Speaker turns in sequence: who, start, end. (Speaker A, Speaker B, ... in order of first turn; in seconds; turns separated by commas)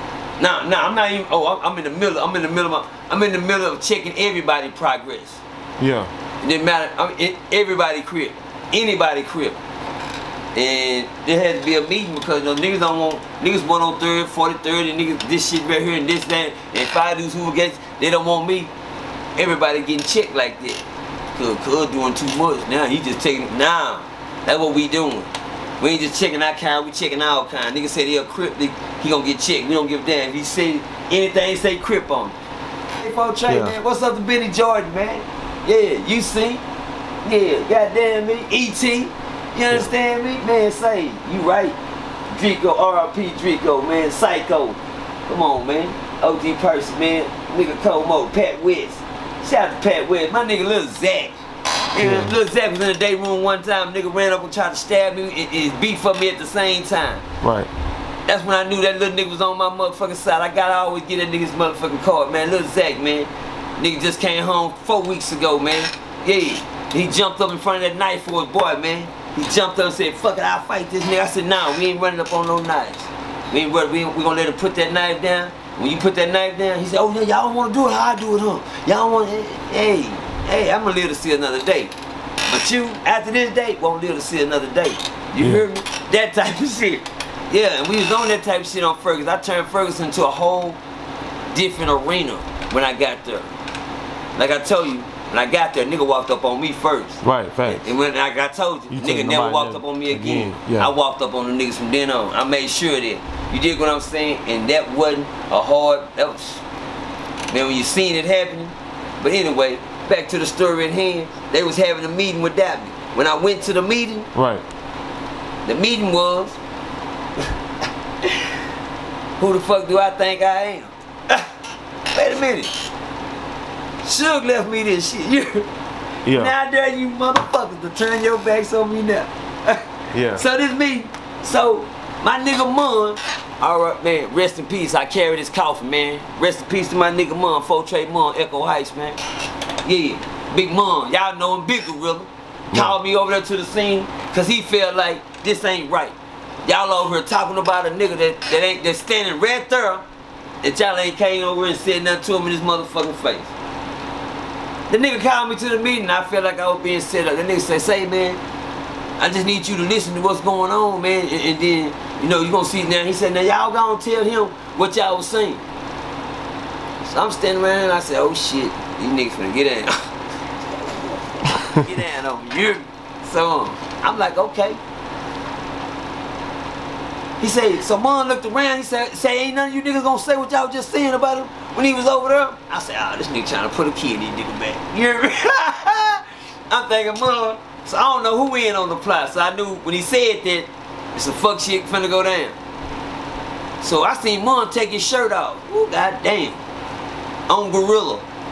Speaker A: 0.4-5.4, Speaker B: 5.8-6.1, Speaker A: 6.4-9.6, Speaker A: 10.6-18.7, Speaker A: 19.4-20.8, Speaker A: 21.4-32.4, Speaker A: 33.0-36.6, Speaker B: 33.5-33.8, Speaker A: 37.2-41.8, Speaker A: 42.3-51.4, Speaker A: 51.9-57.2, Speaker B: 52.0-52.3, Speaker B: 57.4-57.7, Speaker A: 58.3-81.9, Speaker A: 82.5-90.8, Speaker A: 91.5-93.5, Speaker A: 94.4-106.6, Speaker B: 97.2-97.9, Speaker B: 98.9-100.9, Speaker A: 107.5-114.3, Speaker B: 114.3-114.6, Speaker A: 115.7-116.6, Speaker A: 119.4-121.5, Speaker A: 122.1-122.8, Speaker A: 124.0-125.7, Speaker B: 126.3-126.5, Speaker A: 126.3-139.2, Speaker B: 130.1-130.4, Speaker A: 139.8-150.0, Speaker B: 142.7-143.0, Speaker A: 150.6-153.5, Speaker A: 154.9-158.4, Speaker A: 159.2-165.6, Speaker A: 167.1-170.1, Speaker A: 171.5-174.8, Speaker A: 177.4-192.6, Speaker A: 193.8-196.6, Speaker A: 197.5-198.3